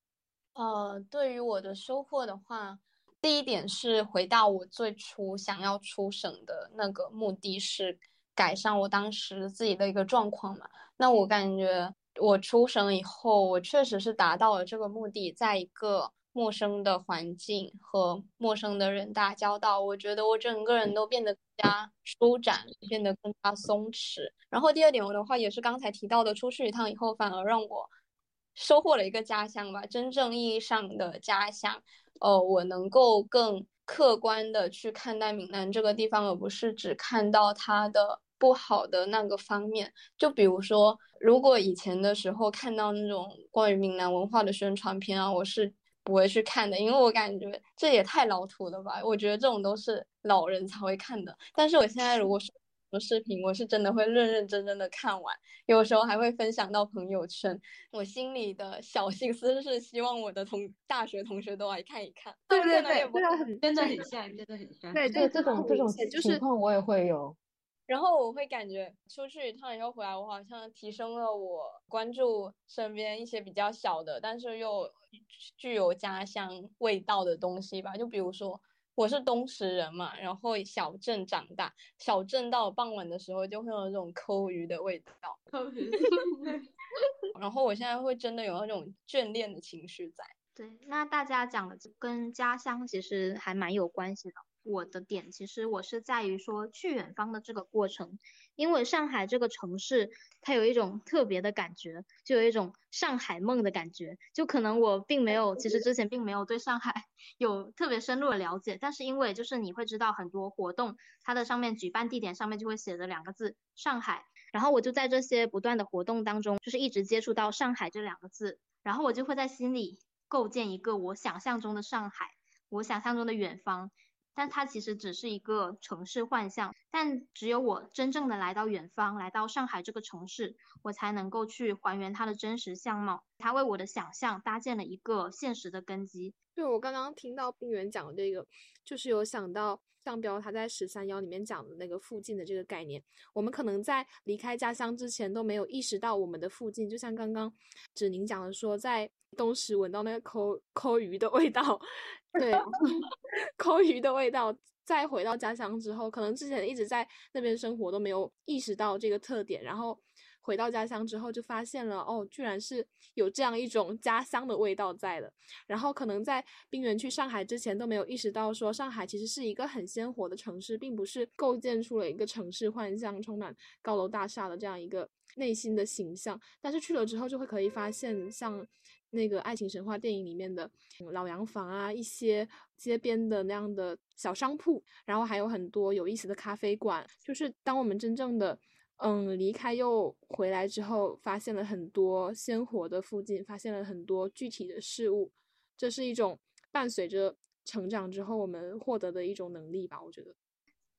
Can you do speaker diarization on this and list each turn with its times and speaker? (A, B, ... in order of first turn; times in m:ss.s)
0:00.5-0:27.9 A
0:28.6-1:03.2 A
1:02.5-1:04.1 B
1:03.6-1:05.6 C
1:04.9-1:06.4 B
1:05.1-1:07.4 D
1:07.9-1:14.9 A
1:15.6-1:25.4 A
1:25.5-1:26.6 C
1:27.3-1:30.3 A
1:30.6-2:16.3 E
2:16.6-2:31.8 B
2:32.4-2:32.9 B
2:33.6-3:20.4 B